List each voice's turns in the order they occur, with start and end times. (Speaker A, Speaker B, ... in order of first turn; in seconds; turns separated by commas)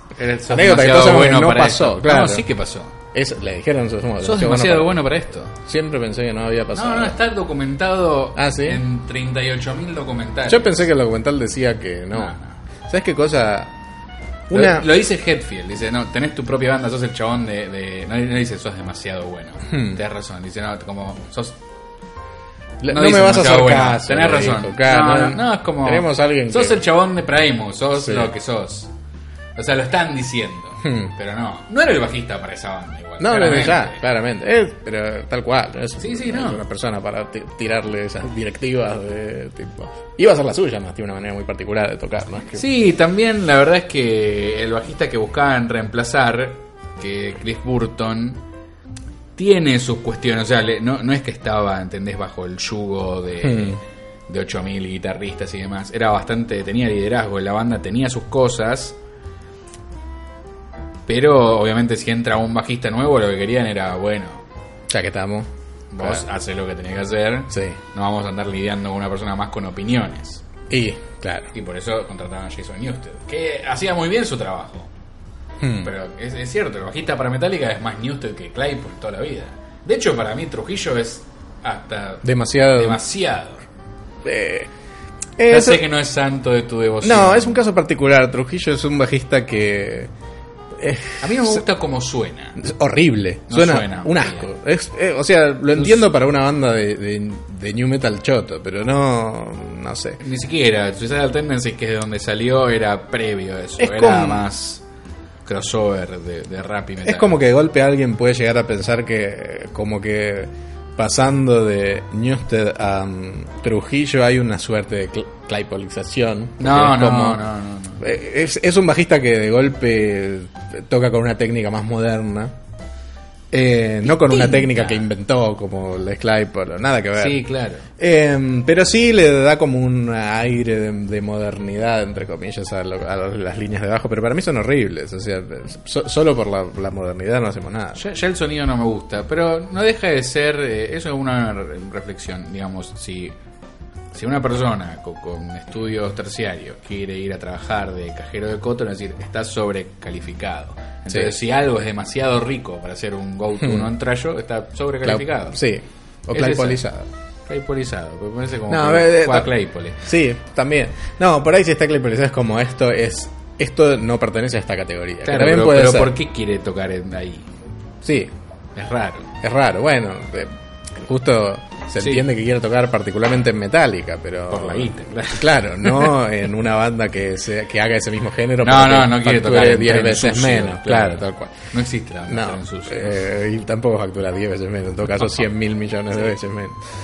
Speaker A: 0.1-3.0, Speaker B: 0.5-2.5, Speaker B: 3.1-5.0, Speaker A: 4.2-5.5, Speaker B: 5.5-7.2, Speaker A: 6.7-10.8, Speaker B: 8.3-8.8, Speaker B: 10.5-12.3, Speaker A: 12.1-12.6, Speaker B: 12.9-13.7, Speaker B: 14.5-14.9, Speaker A: 14.5-21.6, Speaker B: 19.7-20.0, Speaker B: 22.8-26.8, Speaker A: 22.9-28.9, Speaker B: 28.0-28.3, Speaker A: 29.6-34.0, Speaker B: 30.8-31.1, Speaker B: 33.2-42.7, Speaker A: 36.0-36.6, Speaker A: 42.5-48.4, Speaker A: 49.4-59.0, Speaker B: 53.4-53.8, Speaker A: 61.1-64.4, Speaker B: 64.9-65.5, Speaker A: 65.9-70.4, Speaker B: 67.5-67.8, Speaker B: 70.7-71.5, Speaker A: 71.5-74.9, Speaker B: 75.6-75.9, Speaker A: 75.8-83.6, Speaker B: 82.2-83.0, Speaker B: 84.2-84.7, Speaker B: 85.4-85.8, Speaker A: 85.5-87.6, Speaker B: 87.0-90.1, Speaker B: 90.7-91.6, Speaker A: 91.2-92.6, Speaker B: 92.6-100.2, Speaker A: 93.5-94.5, Speaker A: 95.7-96.1, Speaker A: 100.2-104.8, Speaker B: 103.8-104.4, Speaker A: 105.4-107.3, Speaker B: 107.0-117.5, Speaker A: 116.6-118.0, Speaker B: 118.0-122.5, Speaker B: 123.5-127.4, Speaker A: 124.0-125.0, Speaker A: 127.2-127.9, Speaker B: 128.0-138.0, Speaker A: 137.9-143.3, Speaker A: 144.1-155.6, Speaker B: 153.6-153.9, Speaker B: 155.0-157.1, Speaker A: 156.3-156.8, Speaker A: 157.5-160.0, Speaker B: 158.7-166.1, Speaker A: 165.2-167.5, Speaker B: 168.0-168.3, Speaker A: 168.8-169.3, Speaker B: 169.4-181.7, Speaker A: 172.0-172.3, Speaker A: 174.5-176.2, Speaker A: 178.6-183.2, Speaker B: 182.3-186.8